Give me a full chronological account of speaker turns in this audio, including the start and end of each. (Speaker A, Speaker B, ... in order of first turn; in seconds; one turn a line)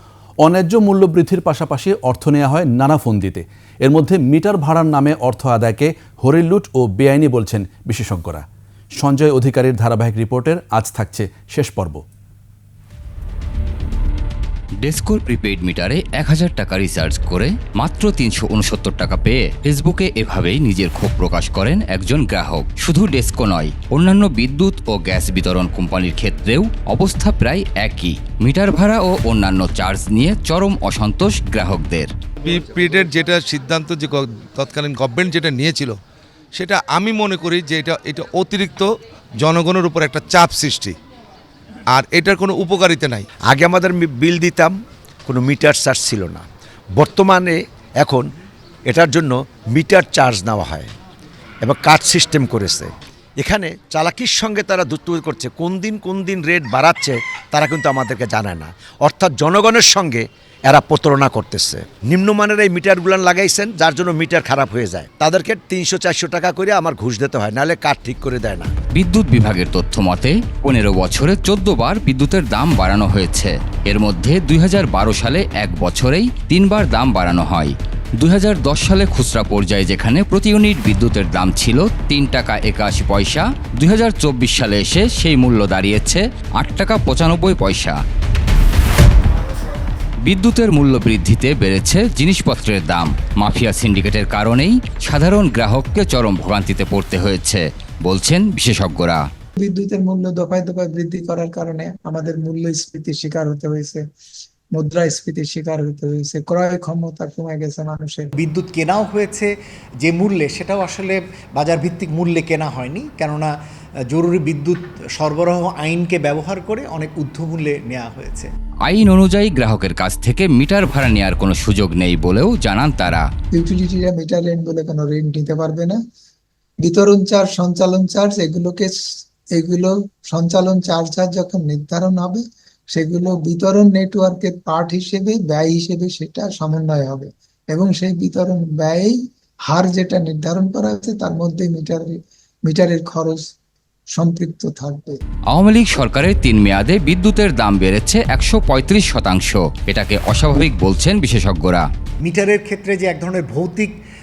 Speaker A: 0.4-8.4
Speaker A: 9.0-12.0
Speaker B: 14.8-32.1
Speaker C: 32.4-36.0
Speaker C: 36.6-38.9
Speaker C: 39.4-41.0
Speaker C: 42.0-43.3
Speaker D: 43.5-44.7
Speaker D: 45.3-46.4
Speaker D: 47.0-48.3
Speaker D: 48.9-50.9
Speaker D: 51.6-68.7
Speaker B: 68.9-88.0
Speaker B: 90.2-99.2
Speaker E: 99.6-104.0
Speaker E: 104.8-108.3
Speaker F: 108.3-113.5
Speaker F: 114.1-118.5
Speaker B: 118.8-123.2
Speaker E: 123.5-126.0
Speaker E: 126.8-129.0
Speaker E: 129.5-139.2
Speaker E: 139.7-143.4
Speaker E: 144.1-145.2
Speaker B: 145.5-151.8
Speaker F: 152.2-153.9